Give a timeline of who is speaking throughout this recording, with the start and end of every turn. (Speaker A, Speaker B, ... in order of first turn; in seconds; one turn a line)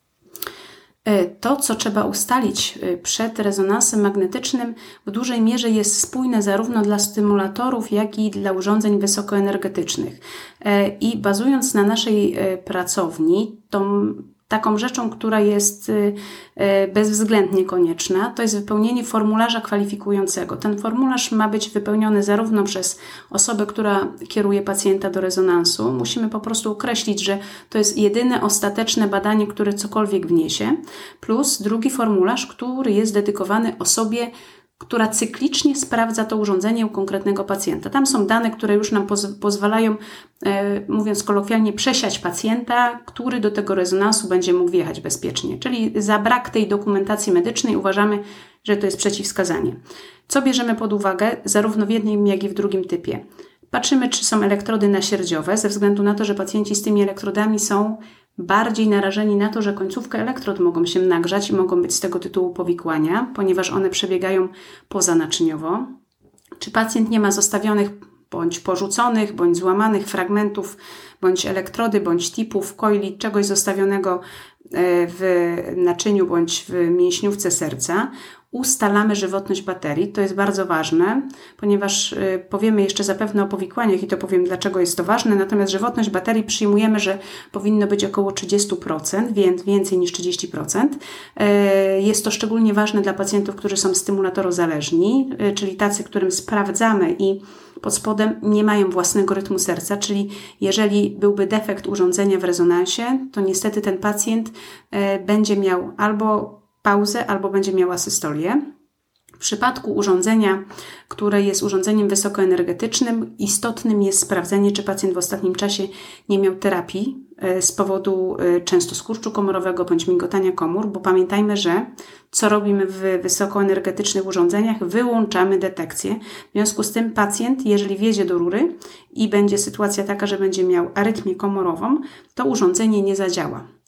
Speaker A: 1.1-65.9
Speaker A: 66.6-74.2
Speaker A: 74.7-108.6
Speaker A: 109.4-133.7